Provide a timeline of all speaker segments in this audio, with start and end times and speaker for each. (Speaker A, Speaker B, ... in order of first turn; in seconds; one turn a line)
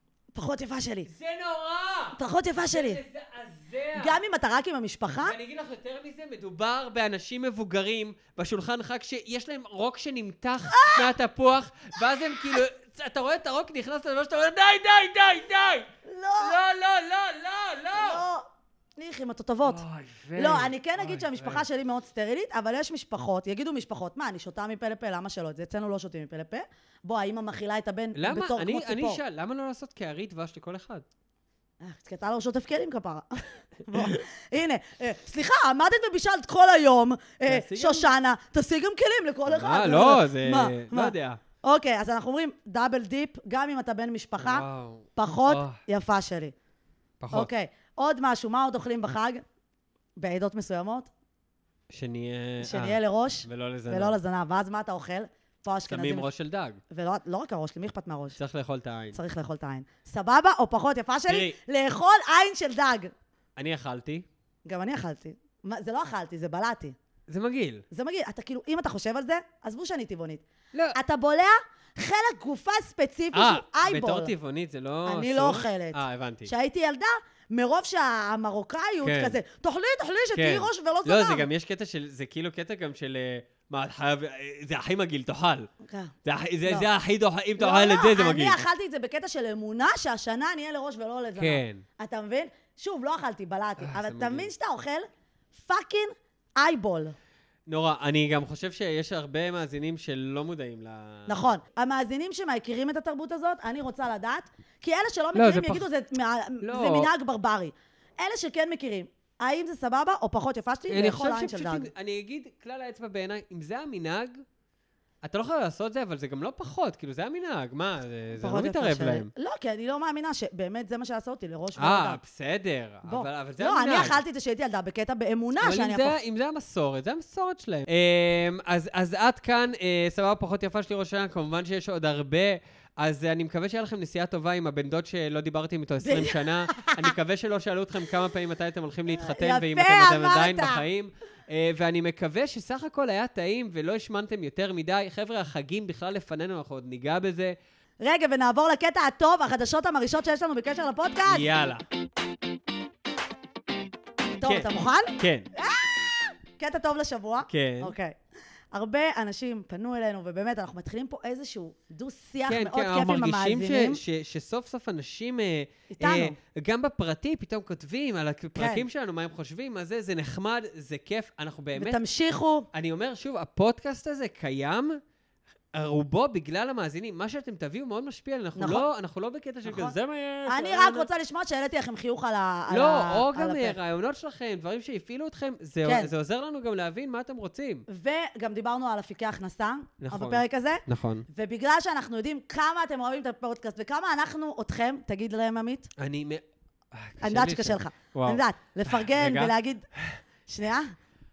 Speaker A: 0.3-1.1
Speaker B: 1.1-2.2
Speaker A: 2.1-3.0
Speaker B: 2.7-4.2
Speaker A: 3.9-5.4
Speaker B: 5.2-18.2
Speaker A: 10.7-11.1
Speaker A: 16.0-16.6
Speaker A: 17.9-18.4
Speaker A: 19.0-19.8
Speaker B: 19.6-21.6
Speaker A: 20.4-29.2
Speaker B: 28.1-31.0
Speaker A: 31.8-46.5
Speaker B: 33.9-34.2
Speaker B: 37.5-38.1
Speaker B: 39.5-41.4
Speaker B: 44.4-45.8
Speaker B: 47.2-47.5
Speaker A: 47.3-49.4
Speaker A: 50.2-51.1
Speaker B: 51.9-54.2
Speaker A: 52.6-56.3
Speaker B: 55.9-56.8
Speaker A: 56.9-58.4
Speaker B: 58.4-59.2
Speaker A: 59.1-63.1
Speaker B: 61.3-61.5
Speaker B: 63.6-64.2
Speaker A: 64.7-67.0
Speaker B: 67.3-67.8
Speaker A: 67.9-70.4
Speaker A: 70.9-74.3
Speaker B: 73.3-76.5
Speaker A: 75.0-81.5
Speaker B: 79.0-79.4
Speaker B: 80.3-85.7
Speaker A: 85.8-86.1
Speaker B: 86.2-88.6
Speaker A: 87.6-95.1
Speaker B: 91.3-91.8
Speaker B: 93.8-94.5
Speaker A: 95.6-97.1
Speaker B: 97.7-101.5
Speaker A: 101.3-111.9
Speaker B: 105.3-105.8
Speaker B: 106.6-107.1
Speaker B: 110.9-114.4
Speaker B: 115.2-119.3
Speaker A: 118.4-122.2
Speaker B: 121.8-124.2
Speaker A: 123.0-126.2
Speaker B: 125.6-147.5
Speaker A: 136.0-137.0
Speaker A: 139.1-140.8
Speaker A: 148.0-151.5
Speaker B: 151.3-151.8
Speaker A: 154.4-158.2
Speaker B: 154.4-155.5
Speaker B: 157.4-157.9
Speaker A: 158.7-164.0
Speaker B: 162.5-172.0
Speaker A: 165.9-166.3
Speaker A: 168.6-168.8
Speaker A: 171.8-172.7
Speaker B: 172.7-175.0
Speaker B: 175.7-181.1
Speaker A: 178.6-178.8
Speaker A: 179.7-179.9
Speaker A: 180.5-183.8
Speaker B: 182.7-187.8
Speaker A: 185.8-186.1
Speaker A: 187.9-195.9
Speaker B: 190.0-191.2
Speaker B: 196.0-200.2
Speaker A: 197.2-199.8
Speaker A: 200.5-200.9